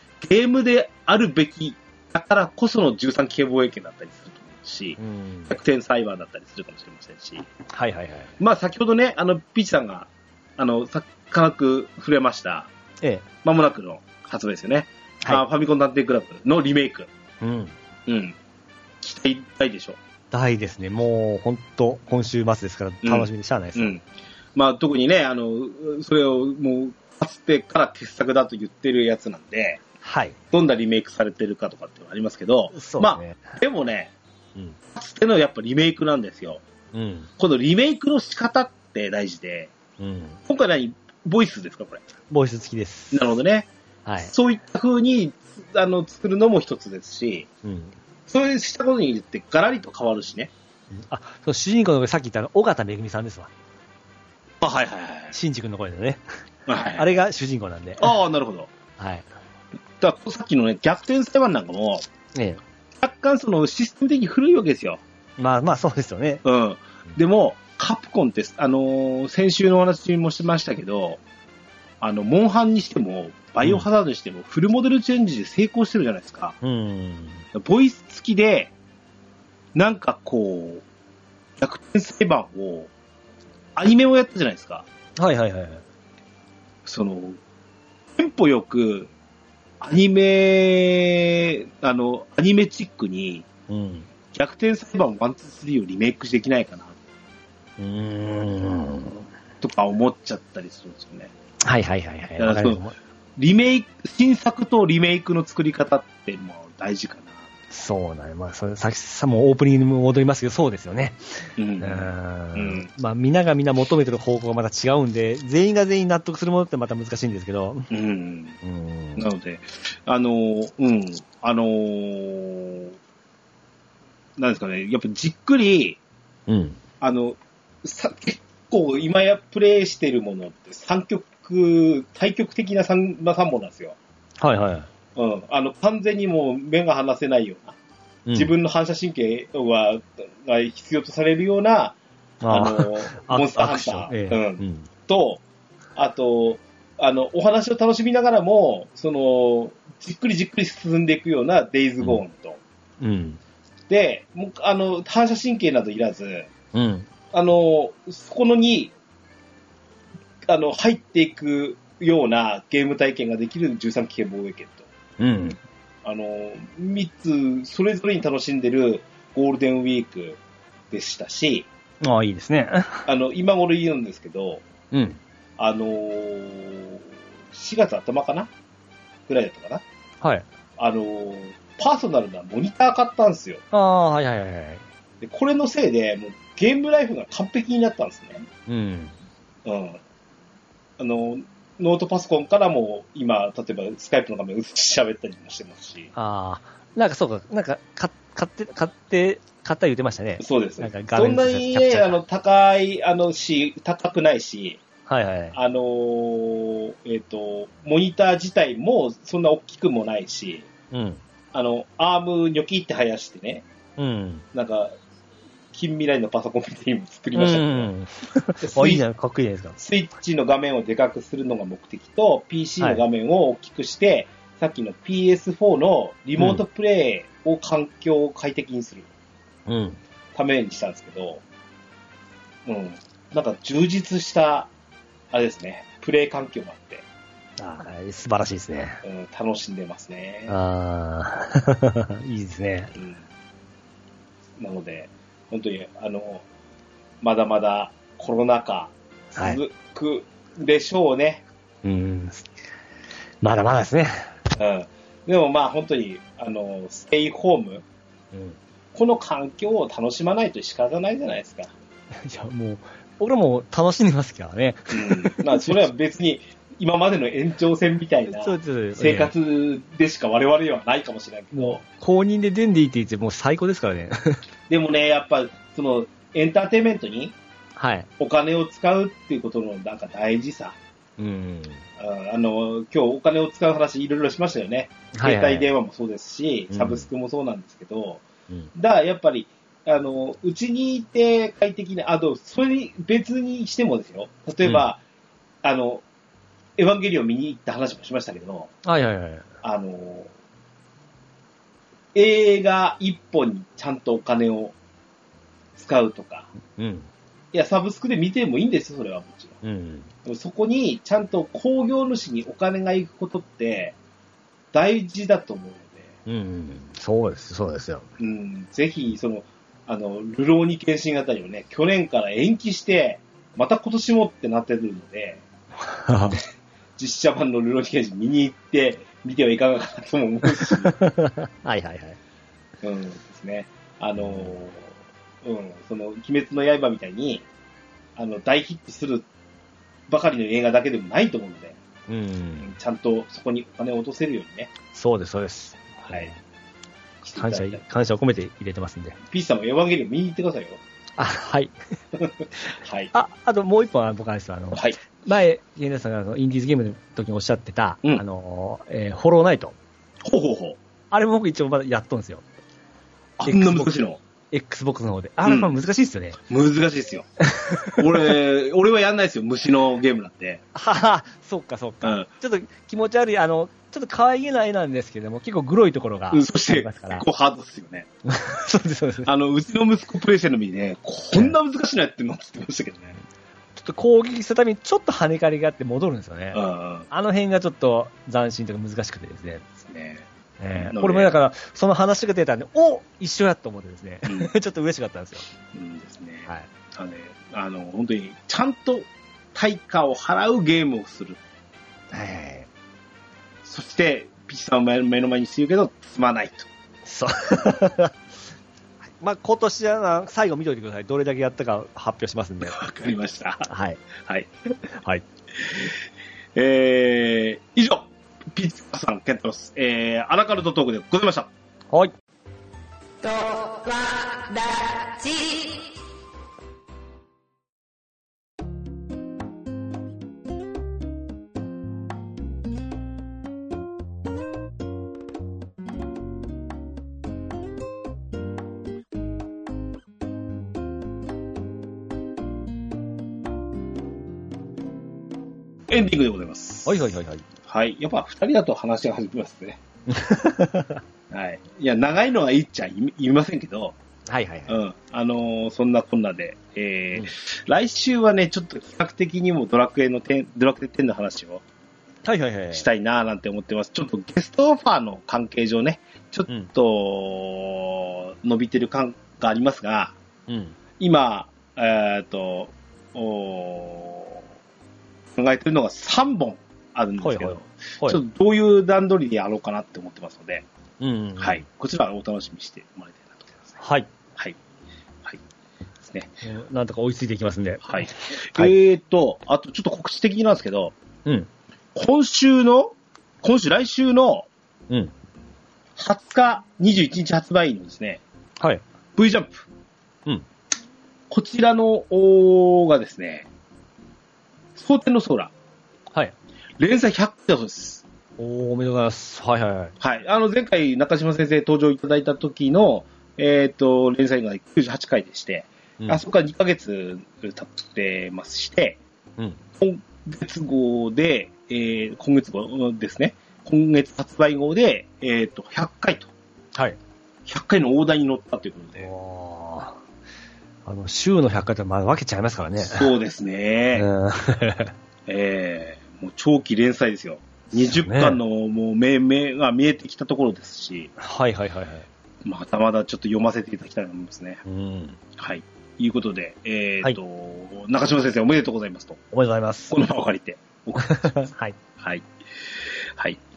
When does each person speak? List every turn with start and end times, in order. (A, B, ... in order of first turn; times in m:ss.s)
0:00.2-0:07.5 A
0:05.0-0:05.5 B
0:07.7-0:08.3 B
0:08.4-0:12.7 A
0:13.4-0:17.1 A
0:17.4-0:17.7 B
0:18.1-0:18.4 A
0:19.0-0:20.0 A
0:20.3-0:24.0 B
0:23.0-0:24.0 A
0:24.5-0:29.8 A
0:30.0-0:30.4 B
0:30.5-0:34.1 A
0:32.7-0:33.6 B
0:34.9-0:36.6 A
0:36.9-0:37.3 B
0:37.4-0:39.7 A
0:40.0-0:40.4 B
0:40.5-0:42.0 A
0:42.3-0:43.2 B
0:43.1-0:43.7 A
0:44.0-0:44.3 B
0:44.2-0:47.5 A
0:47.6-0:47.9 B
0:48.3-0:50.5 A
0:50.9-0:53.5 B
0:54.6-0:55.3 A
0:55.3-0:56.2 B
0:56.7-0:57.1 A
0:56.9-0:58.1 B
0:58.0-0:58.7 A
0:59.0-0:59.2 B
1:00.0-1:02.0 A
1:02.3-1:02.6 B
1:03.0-1:05.0 A
1:05.4-1:06.4 B
1:06.4-1:11.2 A
1:12.0-1:16.5 A
1:16.6-1:17.4 B
1:17.5-1:18.7 A
1:19.7-1:20.8 A
1:21.6-1:22.9 A
1:23.8-1:24.8 A
1:25.2-1:25.8 B
1:26.8-1:27.4 A
1:28.1-1:29.1 A
1:29.8-1:33.4 A
1:33.7-1:34.1 B
1:34.3-1:37.0 A
1:37.8-1:39.3 B
1:39.6-1:41.3 A
1:41.6-1:42.9 B
1:42.4-1:42.8 A
1:43.4-1:47.4 A
1:47.7-1:51.2 B
1:51.6-1:52.9 A
1:51.8-1:57.9 B
1:57.9-1:58.6 A
1:58.6-1:59.2 B
1:59.2-2:02.9 A
2:04.4-2:06.0 A
2:06.5-2:06.8 B
2:07.0-2:14.0 A
2:14.4-2:14.9 B
2:15.2-2:17.8 A
2:18.2-2:18.5 B
2:18.3-2:22.0 A
2:22.4-2:24.9 B
2:22.5-2:25.4 A
2:26.0-2:32.6 A
2:33.0-2:33.4 B
2:33.9-2:36.5 A
2:36.7-2:37.1 B
2:37.3-2:38.9 A
2:40.4-2:44.9 A
2:45.2-2:45.6 B
2:46.0-2:50.4 A
2:50.9-2:51.7 A
2:52.0-2:53.1 B
2:53.1-2:54.6 A
2:54.9-2:55.2 B
2:55.6-2:58.5 A
2:59.3-2:59.8 A
3:00.8-3:03.6 A
3:03.7-3:04.8 B
3:05.2-3:08.5 A
3:08.7-3:09.1 B
3:09.6-3:10.0 A
3:11.0-3:16.1 A
3:16.1-3:22.2 B
3:20.4-3:24.8 A
3:25.1-3:25.6 B
3:25.5-3:30.7 A
3:30.9-3:31.2 B
3:31.5-3:33.6 A
3:34.0-3:34.4 B
3:34.5-3:34.9 A
3:35.7-3:37.9 A
3:37.3-3:39.8 B
3:38.6-3:39.0 A
3:39.8-3:49.1 A
3:49.7-3:50.0 B
3:50.3-3:51.4 A
3:52.6-3:54.7 A
3:55.3-3:57.0 A
3:57.6-3:59.0 B
3:59.0-4:00.5 A
4:00.5-4:02.9 B
4:02.9-4:03.2 A
4:04.6-4:06.4 A
4:07.2-4:11.4 A
4:09.3-4:09.6 B
4:11.8-4:12.5 B
4:13.4-4:14.3 B
4:14.6-4:17.8 A
4:18.3-4:18.6 B
4:18.9-4:21.7 A
4:22.2-4:25.8 B
4:24.9-4:31.8 A
4:28.4-4:29.3 B
4:31.5-4:34.4 B
4:34.7-4:37.3 A
4:37.8-4:38.1 B
4:38.2-4:40.8 A
4:41.2-4:41.8 B
4:42.0-4:48.2 A
4:45.1-4:45.7 B
4:46.7-4:47.1 B
4:48.7-4:55.0 A
4:55.6-4:56.0 A
4:56.8-4:58.7 A
4:58.8-4:59.4 B
4:59.6-5:00.3 A
5:02.1-5:04.7 A
5:05.8-5:06.5 A
5:06.7-5:07.1 B
5:07.5-5:09.6 A
5:09.6-5:10.1 B
5:10.2-5:13.9 A
5:14.7-5:16.1 A
5:16.2-5:18.1 B
5:18.2-5:25.4 A
5:25.9-5:26.4 B
5:27.0-5:30.9 A
5:30.6-5:32.2 B
5:32.8-5:34.9 A
5:35.4-5:37.4 A
5:38.2-5:39.2 A
5:40.1-5:41.8 A
5:42.1-5:42.7 B
5:42.6-5:44.7 A
5:44.9-5:46.4 B
5:47.2-5:47.8 A
5:47.3-5:49.2 B
5:49.3-5:50.8 A
5:51.2-5:51.7 B
5:52.2-5:53.1 A
5:53.1-5:59.7 B
6:00.2-6:00.8 A
6:01.1-6:02.4 B
6:03.4-6:04.2 A
6:03.4-6:06.4 B
6:05.4-6:05.7 A
6:06.5-6:07.2 A
6:07.5-6:08.0 B
6:08.0-6:10.6 A
6:10.7-6:17.2 B
6:16.3-6:18.1 A
6:18.2-6:19.3 B
6:19.2-6:23.2 A
6:23.8-6:29.6 B
6:26.5-6:27.1 A
6:29.8-6:31.3 A
6:30.6-6:35.5 B
6:35.7-6:41.4 A
6:42.1-6:42.7 B
6:43.6-6:46.7 A
6:47.0-6:48.1 B
6:49.2-6:52.8 B
6:52.6-6:53.7 A
6:53.7-6:54.0 B
6:54.2-6:54.5 A
6:54.9-6:55.2 B
6:55.6-6:55.9 A
6:56.5-7:01.5 A
7:03.2-7:05.9 C
7:25.9-7:27.0 A
7:26.8-7:27.4 B
7:27.6-7:29.8 A
7:30.1-7:31.0 B
7:31.3-7:34.0 A
7:34.3-7:34.8 B
7:34.7-7:41.6 A
7:42.2-7:42.8 B
7:42.7-7:50.1 A
7:50.5-7:50.8 B
7:51.0-7:54.4 A
7:55.3-8:00.6 A
7:57.2-7:58.2 B
8:01.0-8:01.6 B
8:01.4-8:03.8 A
8:03.8-8:04.1 B
8:06.0-8:06.3 A
8:06.4-8:08.7 B
8:07.8-8:10.9 A
8:11.9-8:14.5 A
8:16.0-8:18.2 A
8:19.2-8:19.6 A
8:21.3-8:23.5 A
8:24.7-8:25.5 A
8:26.8-8:28.0 A
8:28.4-8:29.9 B
8:30.0-8:39.0 A
8:39.8-8:46.3 A
8:47.4-8:49.1 A
8:49.0-8:50.0 B
8:50.8-8:53.1 B
8:52.8-8:54.1 A
8:53.9-8:54.9 B
8:55.3-9:01.1 A
8:57.7-8:58.4 B
9:01.2-9:02.1 B
9:02.4-9:04.6 A
9:04.6-9:05.2 B
9:05.4-9:09.2 A
9:09.3-9:10.0 B
9:09.9-9:12.2 A
9:11.0-9:11.7 B